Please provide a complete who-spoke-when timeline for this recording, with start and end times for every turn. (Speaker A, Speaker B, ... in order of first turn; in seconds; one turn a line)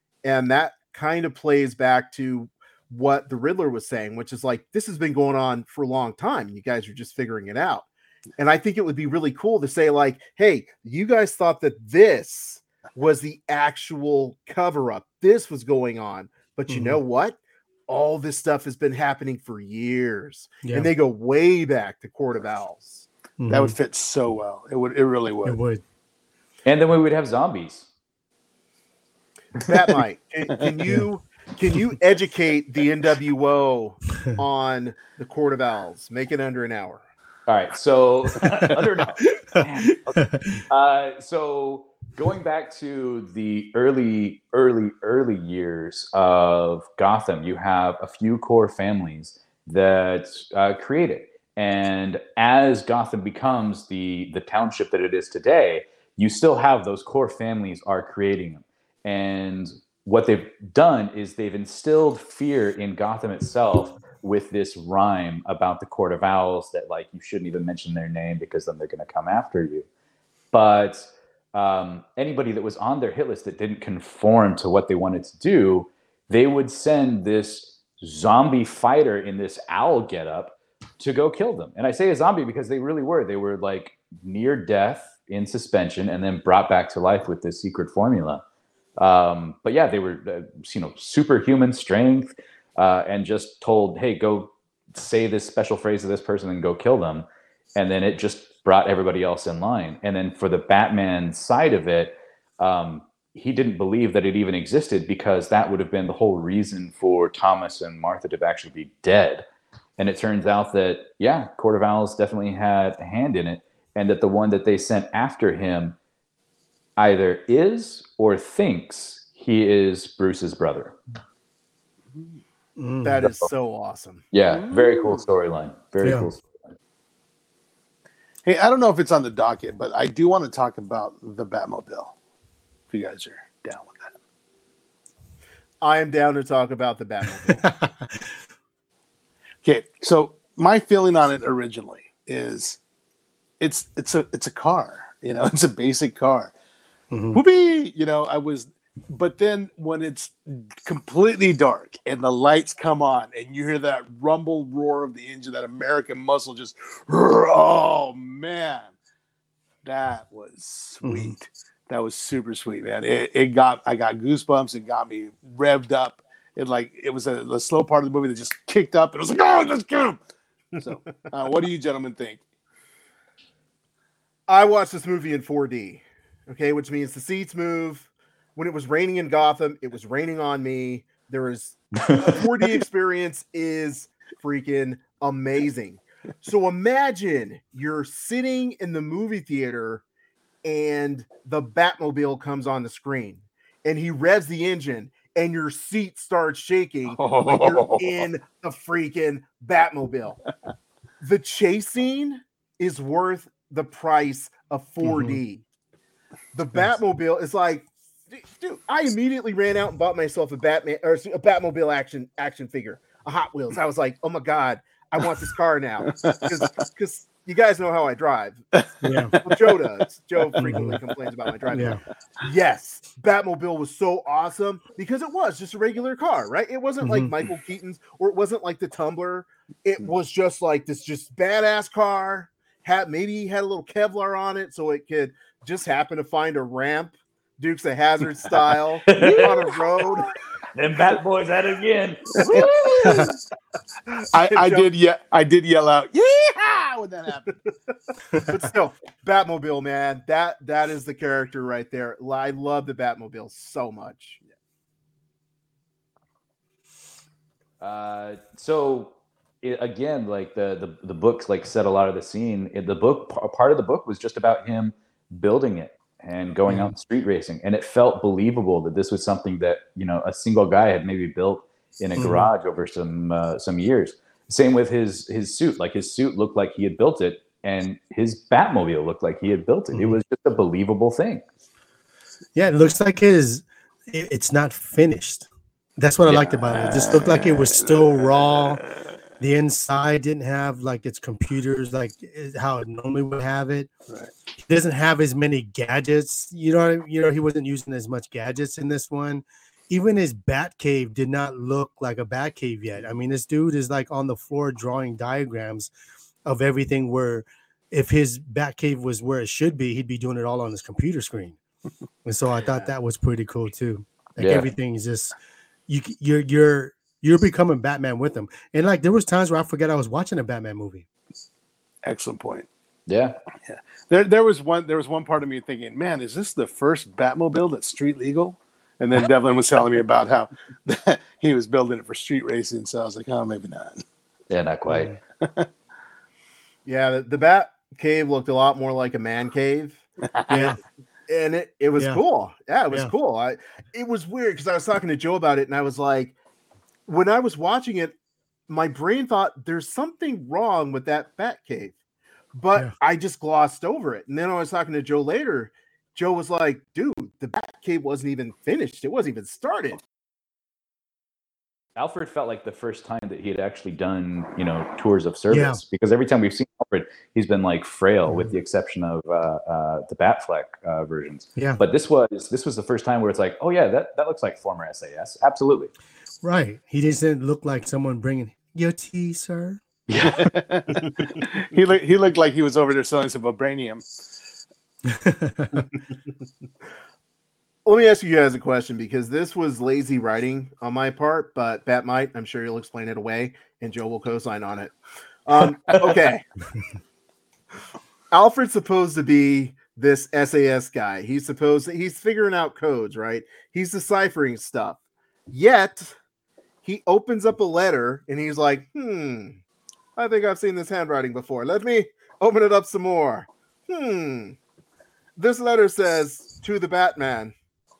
Speaker A: 0.2-17.4
Speaker B: 16.7-17.0
Speaker A: 17.9-23.1
Speaker B: 20.6-20.9
Speaker B: 23.4-23.7
Speaker C: 23.5-25.6
Speaker B: 25.4-25.8
Speaker D: 26.6-27.9
Speaker A: 29.6-37.0
Speaker D: 37.5-69.9
Speaker B: 40.2-40.6
Speaker D: 70.5-88.4
Speaker D: 89.0-109.5
Speaker D: 110.0-116.0
Speaker D: 117.0-121.0
Speaker B: 122.8-123.2
Speaker A: 123.0-124.2
Speaker D: 124.3-126.6
Speaker C: 124.5-125.2
Speaker B: 126.0-126.3
Speaker C: 128.4-132.1
Speaker C: 132.9-134.1
Speaker A: 135.8-137.7
Speaker B: 137.5-138.2
Speaker C: 139.6-142.8
Speaker C: 143.6-146.5
Speaker B: 147.1-147.4
Speaker C: 147.3-158.9
Speaker C: 159.8-170.2
Speaker B: 161.0-161.3
Speaker C: 170.8-172.4
Speaker A: 174.5-190.0
Speaker A: 190.6-200.4
Speaker C: 197.1-198.2
Speaker A: 201.2-205.6
Speaker B: 205.0-205.4
Speaker A: 206.5-218.6
Speaker C: 216.1-216.5
Speaker C: 218.8-219.8
Speaker B: 219.0-219.3
Speaker A: 219.4-240.3
Speaker C: 220.5-220.9
Speaker B: 220.6-221.0
Speaker B: 221.7-222.0
Speaker B: 227.0-227.3
Speaker D: 239.1-239.8
Speaker C: 239.1-240.3
Speaker D: 240.7-243.2
Speaker C: 242.4-243.3
Speaker A: 242.4-243.3
Speaker A: 244.1-244.9
Speaker C: 244.3-247.5
Speaker A: 248.5-254.4
Speaker D: 257.8-281.4
Speaker B: 266.7-266.9
Speaker B: 272.1-272.5
Speaker B: 279.9-280.2
Speaker B: 282.6-288.8
Speaker C: 286.3-288.9
Speaker B: 289.4-293.9
Speaker B: 294.6-305.9
Speaker B: 306.5-311.6
Speaker B: 312.2-315.3
Speaker A: 312.6-312.9
Speaker D: 314.4-314.7
Speaker B: 315.9-321.1
Speaker C: 322.0-322.7
Speaker D: 323.1-323.4
Speaker C: 323.6-334.0
Speaker D: 334.5-335.1
Speaker B: 334.9-335.2
Speaker C: 335.4-335.7
Speaker A: 336.9-340.7
Speaker B: 340.5-340.8
Speaker A: 341.3-346.3
Speaker A: 347.1-348.1
Speaker A: 348.7-351.9
Speaker A: 352.6-360.0
Speaker D: 361.9-375.9
Speaker B: 365.5-365.8
Speaker B: 368.3-368.5
Speaker B: 376.4-379.8
Speaker C: 380.1-384.1
Speaker B: 385.1-385.8
Speaker A: 387.8-396.4
Speaker D: 395.9-396.1
Speaker A: 398.3-405.0
Speaker A: 405.5-406.1
Speaker A: 406.8-409.6
Speaker A: 410.1-414.6
Speaker A: 415.4-417.5